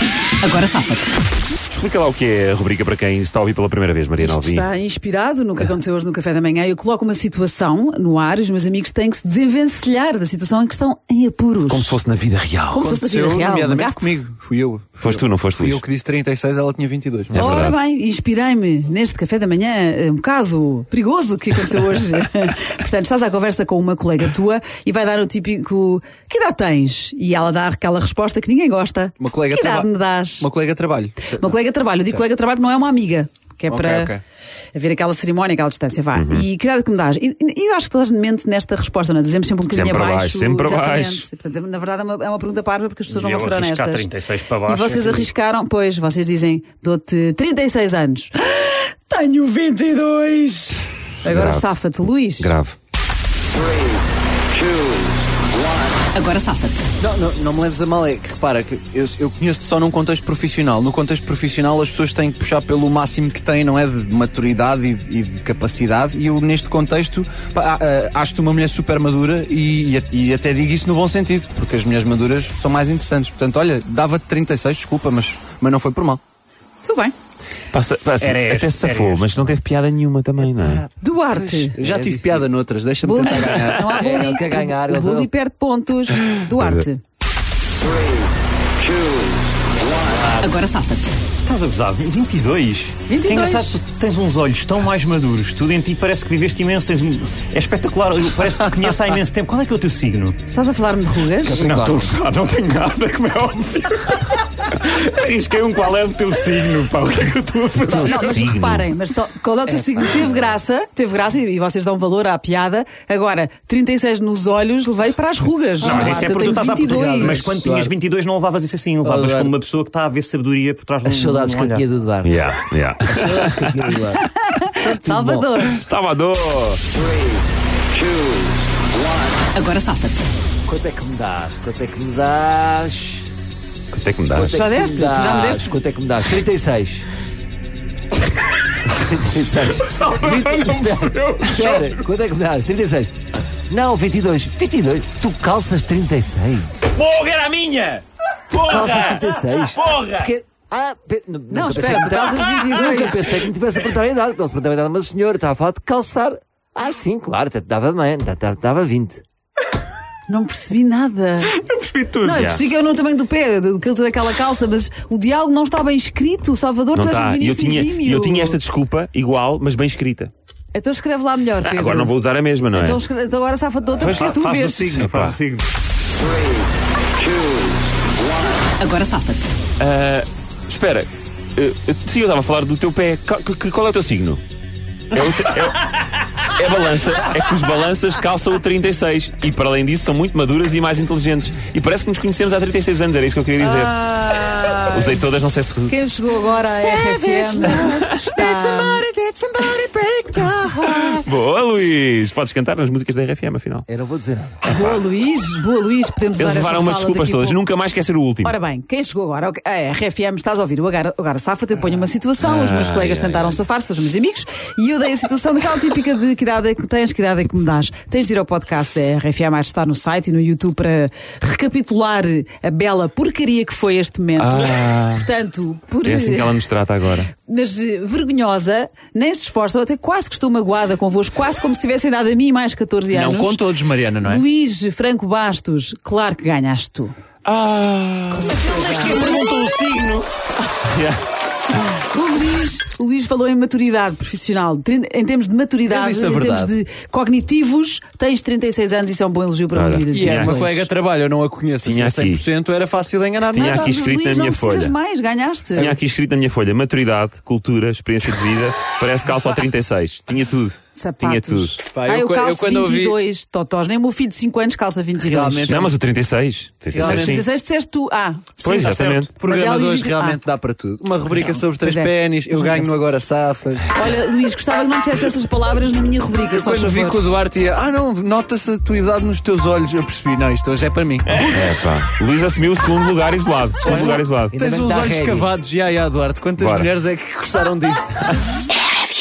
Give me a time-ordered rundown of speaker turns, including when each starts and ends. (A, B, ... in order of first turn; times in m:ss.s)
0:00.4-0:01.1 A
0:01.7-0:04.7 B
0:04.2-0:12.0 A
0:11.7-0:12.9 B
0:12.7-0:14.0 A
0:12.8-0:17.4 C
0:15.0-0:15.8 B
0:17.3-0:17.8 B
0:17.3-0:30.5 A
0:29.2-0:32.2 C
0:31.4-0:34.1 A
0:33.7-0:34.2 C
0:34.7-0:44.1 A
0:36.1-0:36.5 B
0:39.7-0:41.3 B
0:43.1-0:45.3 D
0:44.7-0:52.5 A
0:51.2-0:51.7 B
0:52.4-0:52.8 B
0:56.1-0:56.9 A
0:57.0-1:16.2 C
1:16.8-1:17.1 A
1:17.7-1:20.8 B
1:18.0-1:19.5 D
1:20.6-1:22.5 E
1:21.0-1:21.8 A
1:21.8-1:24.0 C
1:23.0-1:27.0 A
1:23.9-1:25.3 E
1:26.6-1:26.8 B
1:29.9-1:30.6 D
1:30.4-1:31.1 A
1:31.4-1:40.4 D
1:33.1-1:33.8 A
1:40.5-1:41.7 A
1:41.4-1:42.2 E
1:41.5-1:48.4 D
1:47.9-1:57.4 A
1:47.9-1:48.9 B
1:47.9-1:48.4 E
1:49.7-1:50.3 E
1:55.8-2:01.8 D
1:55.9-1:58.0 C
1:59.0-1:59.5 C
2:01.0-2:02.4 E
2:02.2-2:03.9 B
2:03.1-2:04.2 E
2:04.3-2:05.9 A
2:04.8-2:05.5 E
2:05.8-2:06.8 B
2:09.5-2:10.3 A
2:10.6-2:13.3 E
2:13.9-2:14.6 B
2:14.3-2:17.0 E
2:14.4-2:15.8 A
2:18.9-2:23.1 E
2:19.6-2:22.1 B
2:23.7-2:26.8 E
2:26.9-2:30.3 B
2:28.5-2:39.2 E
2:31.5-2:33.4 A
2:40.3-2:41.5 A
2:41.5-2:42.4 D
2:42.2-2:48.6 A
2:42.3-2:42.6 B
2:46.9-2:50.3 B
2:50.7-2:52.1 A
2:51.6-2:53.0 B
2:52.7-2:54.9 A
2:54.0-2:55.7 D
2:54.9-2:55.4 B
2:58.8-2:59.5 A
2:59.8-3:04.4 B
3:05.1-3:16.0 B
3:13.6-3:15.2 A
3:15.9-3:21.2 A
3:16.7-3:19.0 E
3:17.7-3:18.0 B
3:20.8-3:23.8 B
3:23.9-3:24.6 E
3:24.6-3:25.0 B
3:24.6-3:27.6 A
3:26.4-3:28.5 B
3:28.4-3:46.6 A
3:32.4-3:33.6 B
3:44.4-3:45.3 B
3:46.0-3:47.3 B
3:47.4-3:53.6 A
3:53.1-3:54.4 C
3:54.2-3:57.1 A
3:57.4-4:00.3 B
3:58.3-3:59.9 A
4:00.8-4:01.2 B
4:01.9-4:10.9 A
4:05.9-4:06.7 C
4:09.7-4:10.6 B
4:10.1-4:13.9 C
4:11.8-4:12.5 B
4:13.5-4:14.9 B
4:13.5-4:16.0 A
4:15.7-4:21.8 B
4:20.9-4:25.8 A
4:21.9-4:23.2 C
4:25.2-4:25.9 C
4:25.7-4:27.4 B
4:26.9-4:27.4 C
4:27.0-4:28.7 A
4:28.6-4:29.4 B
4:28.6-4:34.2 C
4:29.4-4:30.4 A
4:31.8-4:32.9 A
4:33.9-4:37.3 A
4:36.5-4:41.6 C
4:41.4-4:44.6 B
4:43.8-4:48.5 C
4:44.6-4:45.5 E
4:46.6-4:46.9 B